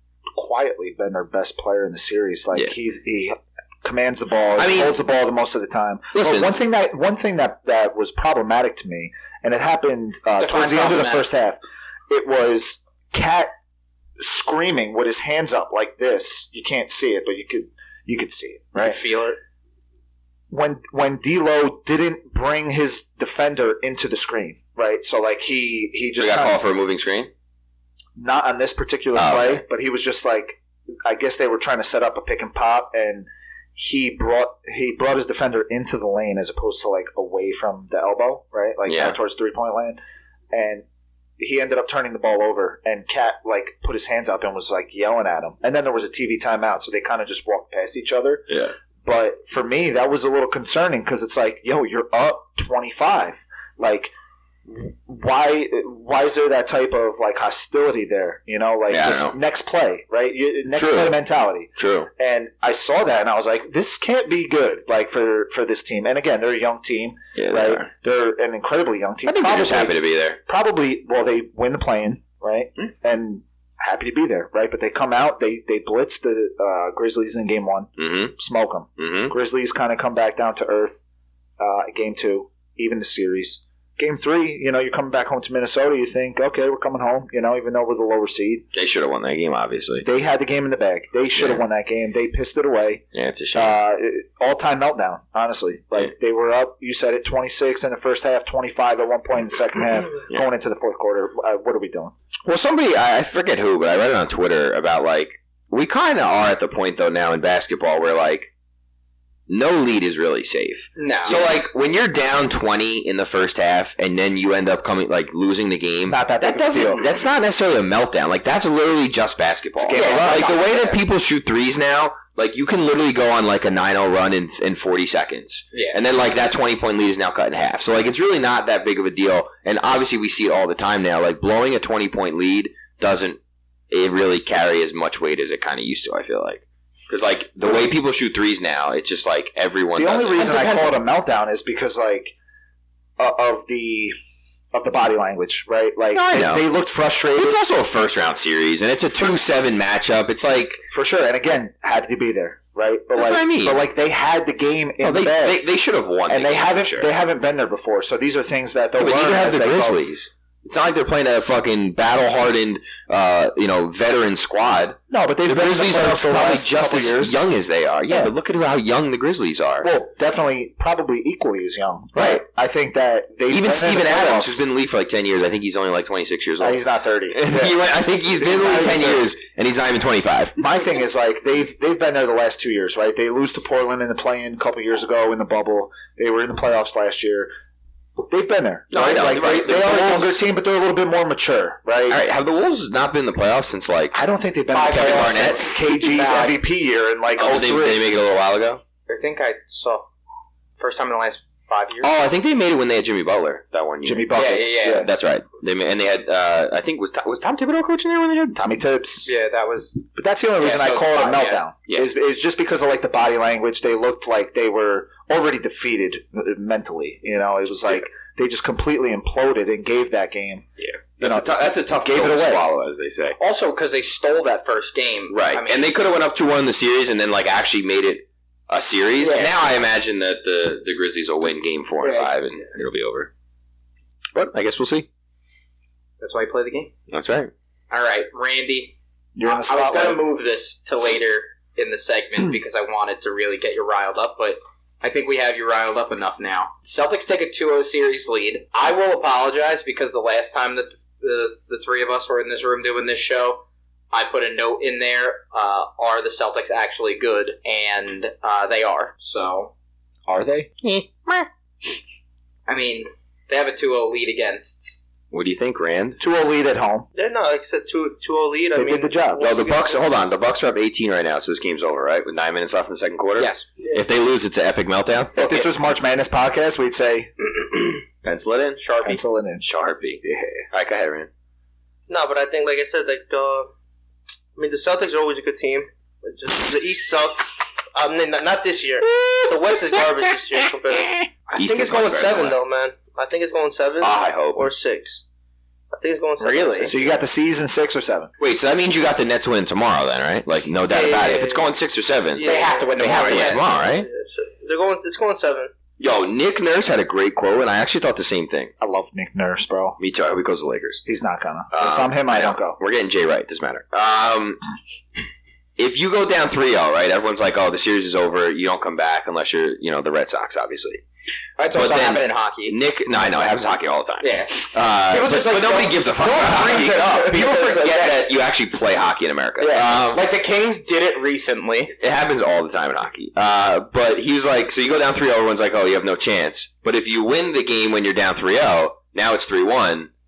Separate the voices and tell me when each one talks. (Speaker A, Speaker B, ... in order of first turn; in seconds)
Speaker A: 0.3-13.5, 14.2-19.0, 20.5-26.6, 28.1-40.0, 40.5-40.8, 41.4-48.5, 49.0-54.1, 54.7-81.0, 81.6-88.7, 90.0-93.0, 93.5-102.1, 116.1-117.1, 119.8-120.8, 139.9-142.3, 143.2-144.1, 144.7-147.6, 150.9-155.6, 156.3-160.0, 165.1-167.4, 168.1-168.3, 169.8-174.6, 176.6-177.8, 178.4-179.3, 180.6-187.5, 188.3-192.2, 194.1-198.0, 204.0-205.1, 208.5-209.3, 210.1-220.7, 221.2-222.6, 239.3-240.2, 260.3-260.7, 266.2-267.1, 268.7-269.4, 275.4-277.5, 279.0-279.6, 280.2-280.6, 296.8-298.3, 308.8-310.0, 311.0-312.8
Speaker B: 4.6-4.9, 6.1-6.5, 26.2-27.3, 29.1-29.6, 38.9-39.1, 48.5-48.7, 58.9-59.3, 60.7-61.2, 61.8-62.1, 67.3-67.9, 69.2-70.4, 78.0-78.3, 79.0-79.3, 88.7-90.1, 91.3-91.6, 93.1-93.8, 102.5-108.5, 109.5-133.4, 133.9-140.6, 146.1-146.6, 147.3-150.8, 153.1-153.8, 155.0-157.1, 159.0-169.9, 172.1-172.4, 173.5-180.6, 188.9-190.4, 192.1-194.2, 194.9-195.8, 197.4-198.8, 202.0-208.6, 220.8-223.4, 225.3-233.3, 234.3-235.1, 237.1-237.5, 260.8-261.5, 265.3-266.2, 269.4-275.6, 278.2-278.8, 279.6-281.3, 289.1-290.1, 291.5-292.6, 294.0-294.7, 298.4-304.1, 306.0-308.7, 310.0-311.0, 311.7-314.6, 315.8-321.0, 321.7-330.3, 332.0-340.1
Speaker C: 10.4-11.3, 111.0-111.4, 119.9-120.9, 125.7-126.0, 140.4-141.0, 194.7-196.6, 199.1-200.1, 200.8-202.1, 204.3-205.1, 209.2-210.0, 210.6-211.6, 223.4-225.9, 229.2-229.5, 232.0-232.3, 236.2-236.9, 237.9-259.7, 262.7-265.0, 273.4-273.7, 278.8-279.2, 296.4-296.9, 302.4-303.6, 321.6-322.8, 324.2-328.3, 329.6-331.9
Speaker D: 18.8-19.4, 267.1-270.1, 282.1-283.7, 284.6-295.2, 295.9-297.1, 300.9-301.7, 302.3-305.7